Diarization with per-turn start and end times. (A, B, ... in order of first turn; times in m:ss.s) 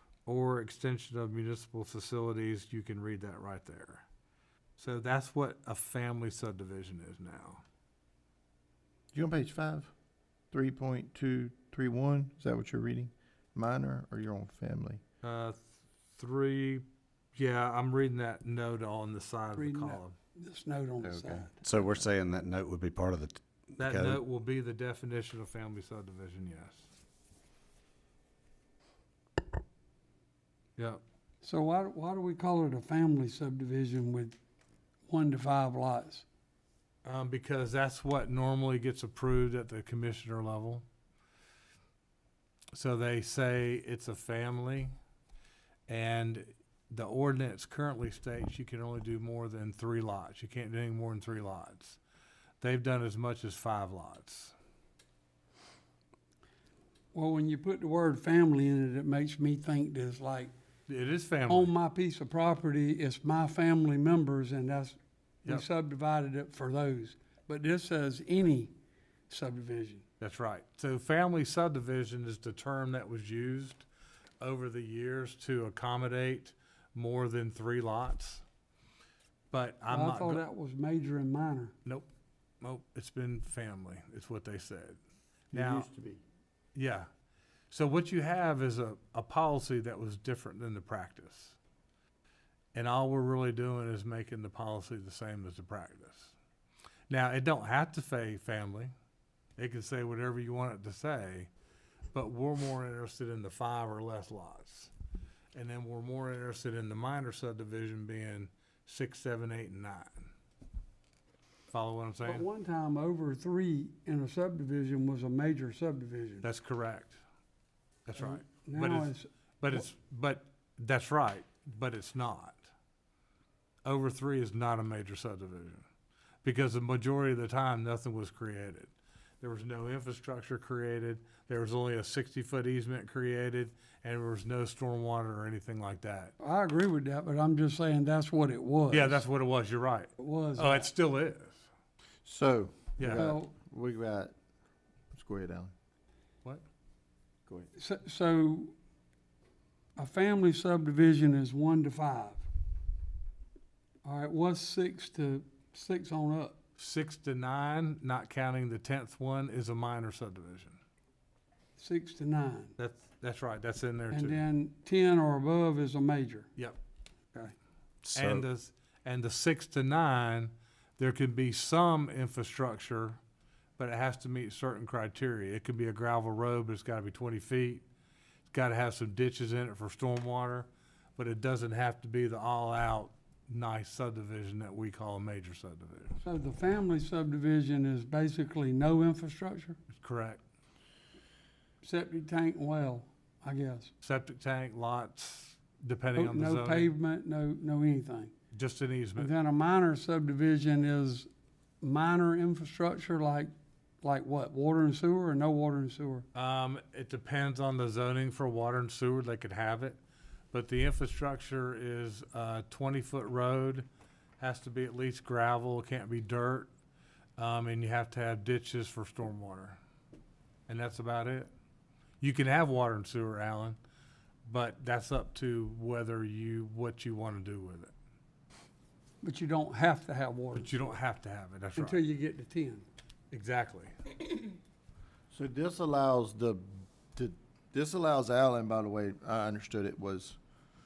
0:00.2-0:04.0 A
0:04.8-0:07.6 A
0:09.1-0:09.9 B
0:10.5-0:15.0 B
0:15.2-0:20.2 A
0:19.5-0:21.6 C
0:21.0-0:21.5 B
0:21.6-0:24.2 D
0:23.8-0:26.9 A
0:31.4-0:34.4 C
0:35.1-0:36.2 C
0:37.0-0:40.8 A
0:42.7-0:44.9 A
0:45.9-0:52.0 A
0:52.6-0:54.5 A
0:57.1-1:00.5 C
1:00.9-1:01.7 A
1:01.5-1:08.7 C
1:09.3-1:10.0 C
1:10.2-1:13.8 A
1:14.4-1:18.4 A
1:19.5-1:20.4 A
1:19.9-1:21.7 C
1:21.8-1:22.1 A
1:22.6-1:25.0 A
1:25.5-1:26.2 B
1:25.5-1:25.9 A
1:26.7-1:27.1 A
1:27.7-1:31.6 A
1:32.7-1:36.3 A
1:37.1-1:38.9 A
1:39.6-1:41.5 A
1:42.1-1:44.9 A
1:45.5-1:50.3 A
1:51.7-1:52.4 A
1:52.2-1:56.4 C
1:56.4-1:57.2 A
1:58.0-2:02.7 A
1:58.2-1:59.3 C
2:03.8-2:05.8 A
2:06.4-2:16.3 A
2:16.4-2:19.2 C
2:18.9-2:21.7 A
2:20.2-2:20.9 C
2:22.2-2:24.3 B
2:23.0-2:23.3 A
2:23.1-2:23.5 C
2:25.1-2:25.7 B
2:27.8-2:28.7 C
2:30.0-2:32.4 C
2:34.0-2:36.6 C
2:36.8-2:40.8 A
2:41.8-2:42.7 C
2:42.8-2:44.4 A
2:44.1-2:46.5 C
2:48.0-2:48.4 D
2:48.1-2:53.2 A
2:53.8-2:57.8 A
2:58.5-3:06.2 A
3:06.2-3:09.8 C
3:09.9-3:10.4 A
3:11.8-3:13.9 C
3:14.0-3:16.9 A
3:16.1-3:18.3 C
3:18.5-3:19.3 A
3:19.2-3:21.3 C
3:21.8-3:23.5 C
3:24.0-3:26.2 C
3:26.3-3:30.0 A
3:30.5-3:33.8 A
3:34.4-3:36.7 A
3:37.4-3:39.8 A
3:40.7-3:41.5 A
3:42.2-3:43.8 A
3:44.4-3:47.9 A
3:49.2-3:50.7 C
3:50.5-3:52.0 A
3:51.8-3:52.8 C
3:53.3-3:54.2 A
3:55.3-4:00.4 B